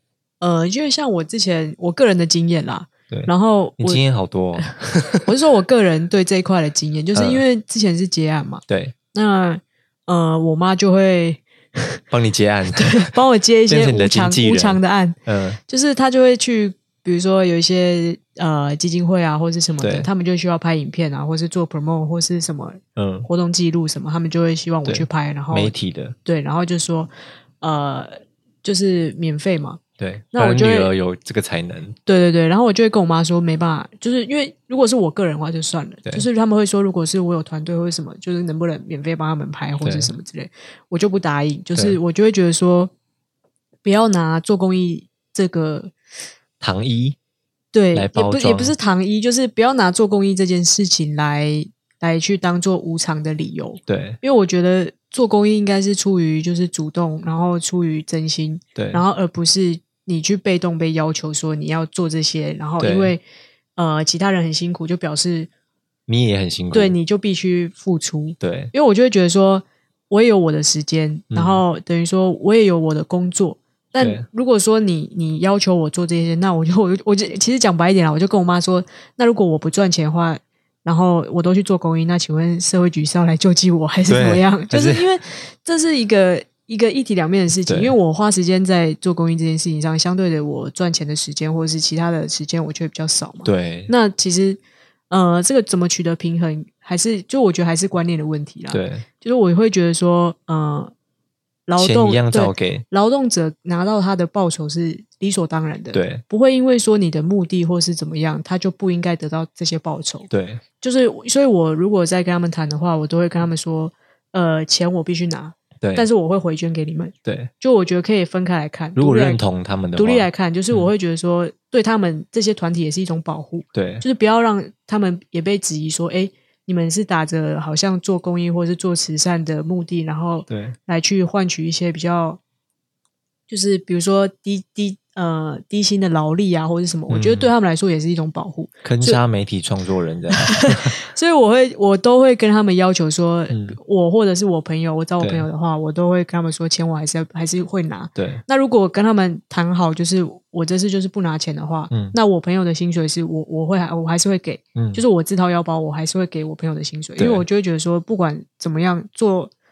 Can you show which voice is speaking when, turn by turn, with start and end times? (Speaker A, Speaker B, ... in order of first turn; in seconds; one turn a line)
Speaker A: 0.4-4.0
Speaker B: 3.1-5.2
Speaker A: 5.2-12.0
Speaker B: 7.2-7.4
Speaker B: 8.7-8.9
Speaker B: 12.1-13.1
Speaker A: 12.7-15.2
Speaker B: 13.7-15.6
Speaker A: 15.7-25.7
Speaker B: 19.8-20.1
Speaker B: 23.0-23.3
Speaker B: 24.9-26.2
Speaker A: 26.2-27.1
Speaker A: 27.6-29.8
Speaker B: 30.0-32.0
Speaker A: 30.3-30.9
Speaker A: 32.1-42.9
Speaker B: 39.8-40.1
Speaker A: 43.9-45.9
Speaker B: 46.6-47.2
Speaker A: 47.7-63.2
Speaker B: 47.9-48.8
Speaker B: 53.9-54.2
Speaker B: 58.8-59.0
Speaker B: 62.8-63.1
Speaker A: 63.8-65.5
Speaker B: 66.1-67.0
Speaker A: 66.7-100.9
Speaker B: 68.4-68.7
Speaker B: 71.3-71.6
Speaker B: 74.0-74.2
Speaker B: 84.1-85.1
Speaker B: 87.7-87.9
Speaker B: 93.5-93.9
Speaker B: 98.7-99.0
Speaker A: 101.7-110.3
Speaker B: 101.8-102.8
Speaker B: 105.9-106.2
Speaker B: 110.3-110.6
Speaker A: 110.8-119.4
Speaker B: 115.8-116.1
Speaker B: 117.3-117.5
Speaker B: 119.0-120.9
Speaker A: 120.0-132.4
Speaker B: 123.7-124.0
Speaker B: 130.5-130.8
Speaker A: 133.5-139.2
Speaker B: 137.1-137.5
Speaker B: 138.8-141.0
Speaker A: 140.3-159.5
Speaker B: 143.5-143.8
Speaker B: 145.2-145.5
Speaker B: 148.2-148.4
Speaker B: 154.8-155.0
Speaker B: 157.2-157.4